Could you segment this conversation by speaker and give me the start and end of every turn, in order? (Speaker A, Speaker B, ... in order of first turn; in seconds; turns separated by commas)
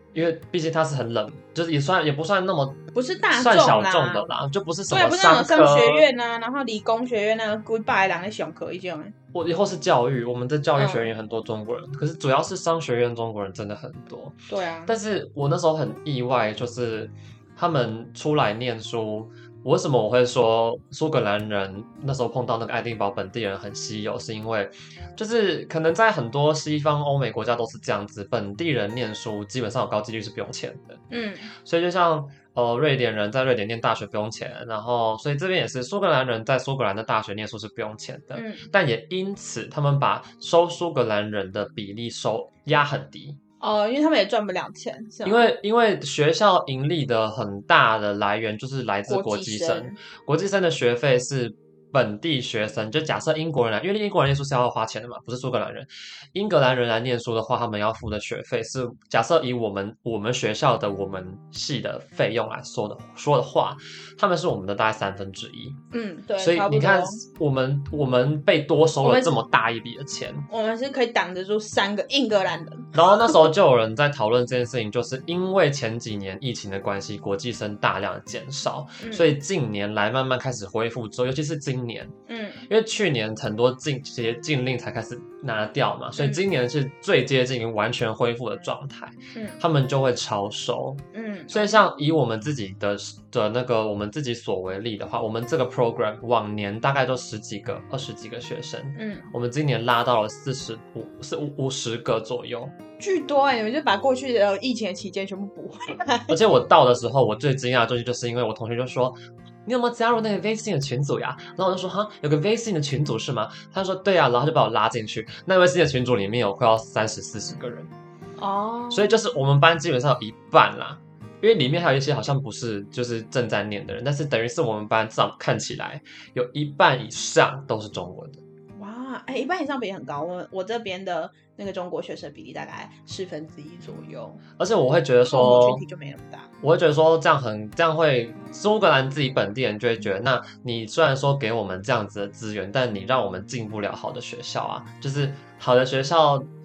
Speaker A: 0.1-2.8, Speaker B: 2.9-4.3, Speaker A: 3.3-6.0, Speaker B: 4.9-9.1, Speaker A: 9.3-31.0, Speaker B: 10.8-11.1, Speaker B: 14.5-14.9, Speaker B: 31.1-31.5, Speaker A: 31.6-43.4, Speaker B: 38.3-38.7, Speaker B: 43.6-45.5, Speaker A: 45.2-65.8, Speaker B: 49.1-50.0, Speaker B: 65.9-67.2, Speaker A: 66.4-70.5, Speaker B: 69.0-69.4, Speaker B: 70.5-73.5, Speaker A: 72.9-82.1, Speaker B: 79.0-79.3, Speaker B: 82.3-82.7, Speaker A: 82.7-102.7, Speaker B: 86.2-86.4, Speaker B: 89.3-89.6, Speaker B: 91.1-91.8, Speaker B: 99.0-99.3, Speaker B: 103.0-106.4, Speaker A: 106.3-117.9, Speaker B: 118.4-119.1, Speaker A: 118.9-128.4, Speaker B: 128.8-134.4, Speaker A: 134.6-135.8, Speaker B: 135.2-136.5, Speaker A: 136.6-146.5